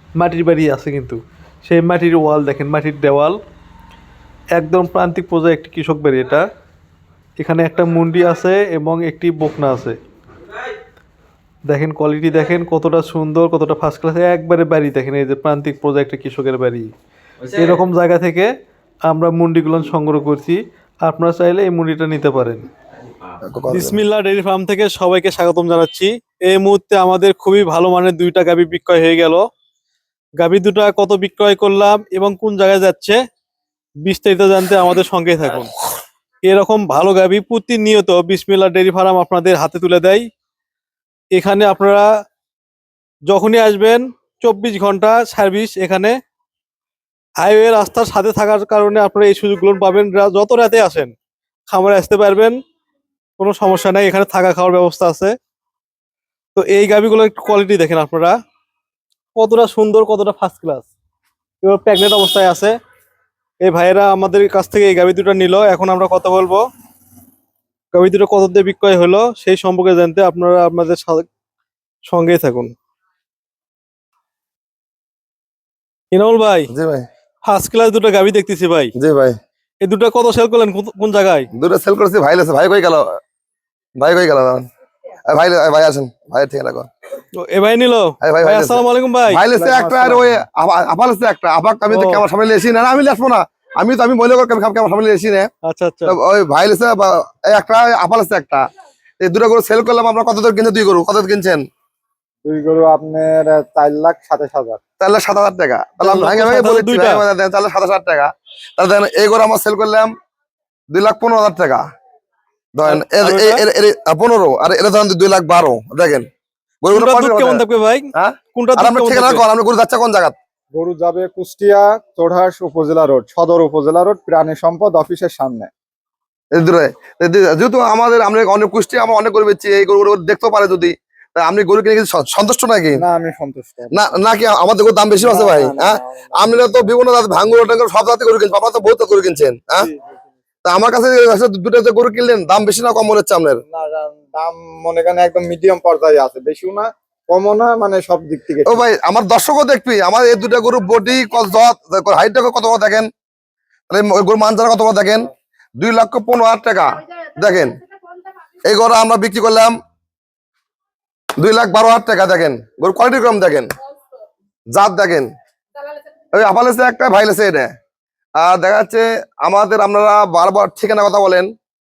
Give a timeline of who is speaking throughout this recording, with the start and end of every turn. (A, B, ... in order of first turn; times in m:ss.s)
0:00.2-0:03.4 A
0:04.5-0:06.4 A
0:07.4-0:10.0 A
0:11.7-0:16.9 A
0:17.5-0:18.5 A
0:19.1-0:22.6 A
0:23.4-0:24.0 B
0:23.7-0:29.4 A
0:30.4-0:33.2 A
0:34.0-0:35.7 A
0:36.4-0:40.2 A
0:41.3-0:42.0 A
0:43.3-0:46.1 A
0:47.4-0:51.1 A
0:51.7-0:52.5 A
0:53.4-0:55.3 A
0:56.6-0:58.3 A
0:59.3-1:00.9 A
1:01.6-1:02.7 A
1:03.6-1:06.6 A
1:07.9-1:11.3 A
1:12.0-1:12.7 A
1:16.1-1:16.7 A
1:16.7-1:17.1 B
1:17.4-1:18.9 A
1:19.0-1:19.3 B
1:19.8-1:21.5 A
1:21.5-1:23.0 B
1:24.0-1:24.6 B
1:25.3-1:26.9 B
1:27.4-1:29.4 A
1:28.2-1:35.5 B
1:29.6-1:30.2 C
1:31.9-1:32.2 A
1:35.6-1:36.2 A
1:36.1-1:38.6 B
1:39.2-1:41.6 B
1:42.4-1:44.8 C
1:45.0-1:50.1 B
1:46.0-1:47.2 A
1:50.9-1:51.8 B
1:52.7-1:56.2 B
1:52.8-1:53.6 A
1:56.8-1:57.6 B
1:56.9-1:59.4 A
1:58.2-2:00.4 B
2:00.8-2:05.7 C
2:06.5-2:13.0 B
2:13.0-2:14.0 C
2:13.9-2:19.9 B
2:15.2-2:16.5 C
2:20.6-2:23.6 B
2:23.7-2:28.8 C
2:28.6-2:33.1 B
2:33.9-2:35.3 B
2:35.8-2:37.8 B
2:38.6-2:39.7 B
2:41.4-2:43.7 B
2:44.7-2:45.3 B
2:46.3-2:47.7 B
2:48.4-2:51.5 B